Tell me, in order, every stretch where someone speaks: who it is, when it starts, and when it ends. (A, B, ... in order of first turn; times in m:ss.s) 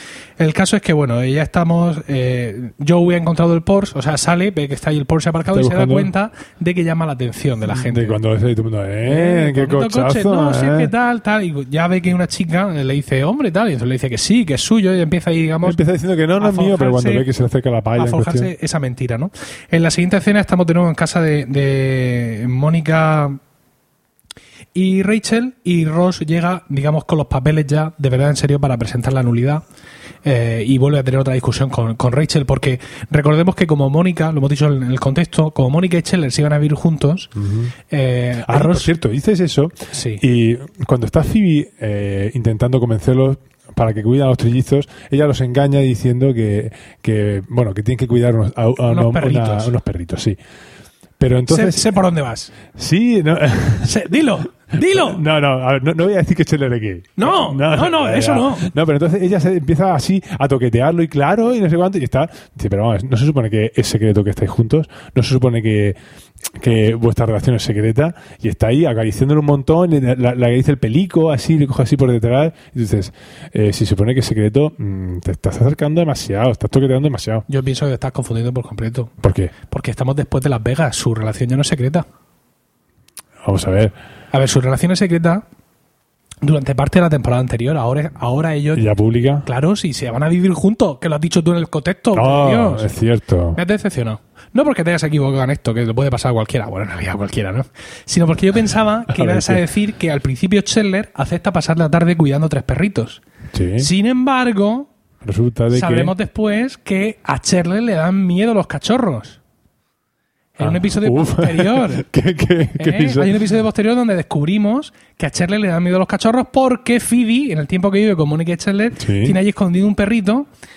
0:00.4-0:08.2 A
0:05.5-0:06.1 B
0:07.7-0:10.9 B
0:09.1-0:15.8 A
0:15.6-0:18.5 B
0:16.4-0:17.3 A
0:18.0-0:23.4 A
0:24.8-0:29.6 A
0:30.2-0:37.3 A
0:37.4-0:37.7 B
0:37.9-0:38.9 A
0:38.4-0:50.4 B
0:39.9-0:40.2 A
0:48.9-0:49.7 A
0:51.2-0:51.9 B
0:51.5-0:52.5 A
0:52.7-0:54.0 B
0:53.8-0:55.2 A
0:54.7-1:06.0 B
0:57.2-0:58.7 A
1:06.5-1:17.4 B
1:17.5-1:22.1 A
1:19.2-1:19.5 B
1:23.4-1:24.0 B
1:24.3-1:25.4 A
1:26.4-1:28.8 A
1:28.8-1:29.5 B
1:29.4-1:32.9 A
1:32.1-1:33.6 B
1:33.6-1:43.2 A
1:39.1-1:39.6 B
1:43.5-1:43.9 B
1:43.8-1:44.9 A
1:45.2-1:46.1 B
1:45.7-1:49.4 A
1:50.6-1:52.1 A
1:50.6-1:53.4 B
1:52.8-2:00.5 A
1:59.0-1:59.4 B